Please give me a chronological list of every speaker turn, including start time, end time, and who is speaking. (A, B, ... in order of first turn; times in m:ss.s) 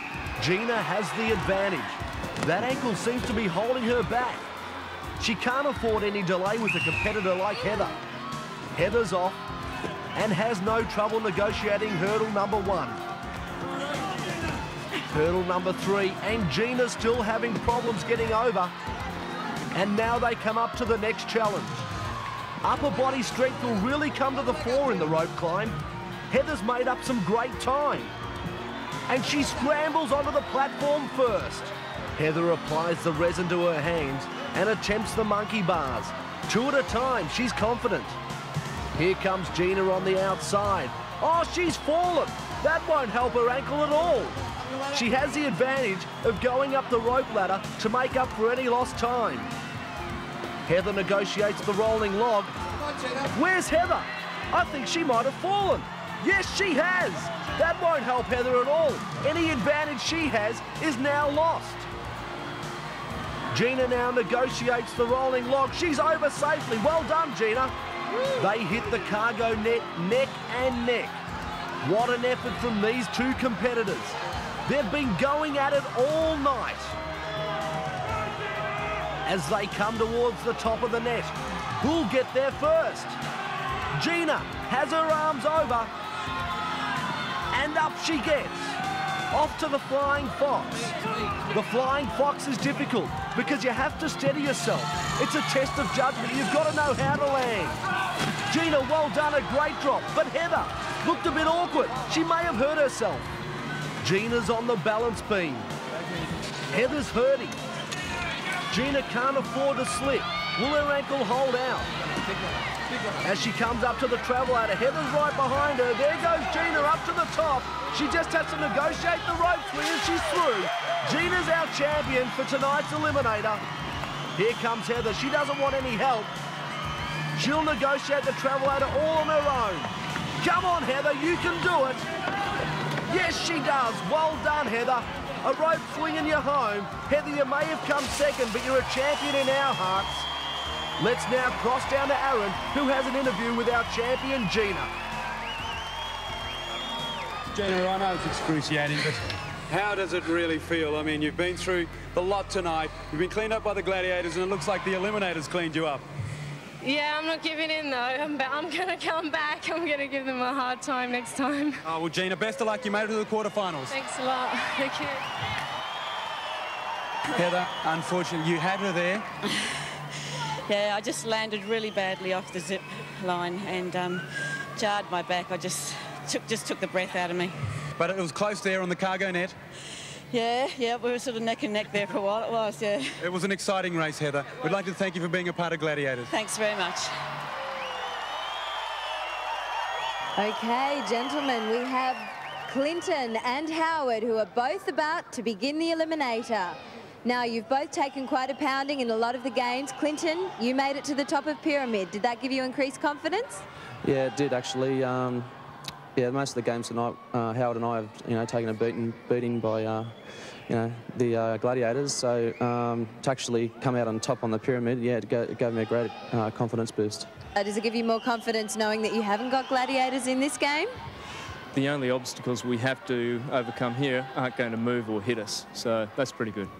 0:00.4-0:04.4 A
0:05.2-0:08.0 A
0:08.7-0:09.4 A
0:10.1-0:13.0 A
0:15.1-0:18.7 A
0:19.7-0:21.9 A
0:22.6-0:25.8 A
0:26.3-0:28.1 A
0:29.1-0:38.2 A
0:38.9-0:44.4 A
0:44.9-0:49.5 A
0:50.6-0:52.5 A
0:53.3-1:01.9 A
1:03.5-1:07.7 A
1:08.4-1:11.2 A
1:11.8-1:17.0 A
1:19.2-1:23.2 A
1:23.9-1:25.9 A
1:27.5-1:28.8 A
1:29.3-1:37.8 A
1:38.5-1:43.3 A
1:44.0-1:45.7 A
1:46.7-1:47.6 A
1:48.7-1:51.9 A
1:53.2-2:03.6 A
2:04.4-2:06.3 A
2:07.3-2:12.0 A
2:13.1-2:20.3 A
2:21.0-2:24.9 A
2:27.5-2:36.0 B
2:36.8-2:41.8 C
2:41.8-2:44.0 B
2:43.9-2:45.2 C
2:47.3-2:49.2 B
2:50.7-2:57.6 D
2:58.0-2:59.5 B
3:00.3-3:03.2 D
3:03.2-3:06.3 B
3:06.3-3:07.1 D
3:10.4-3:23.6 E
3:24.0-3:25.5 F
3:26.1-3:37.3 F
3:37.6-3:40.9 E
3:41.7-3:46.7 G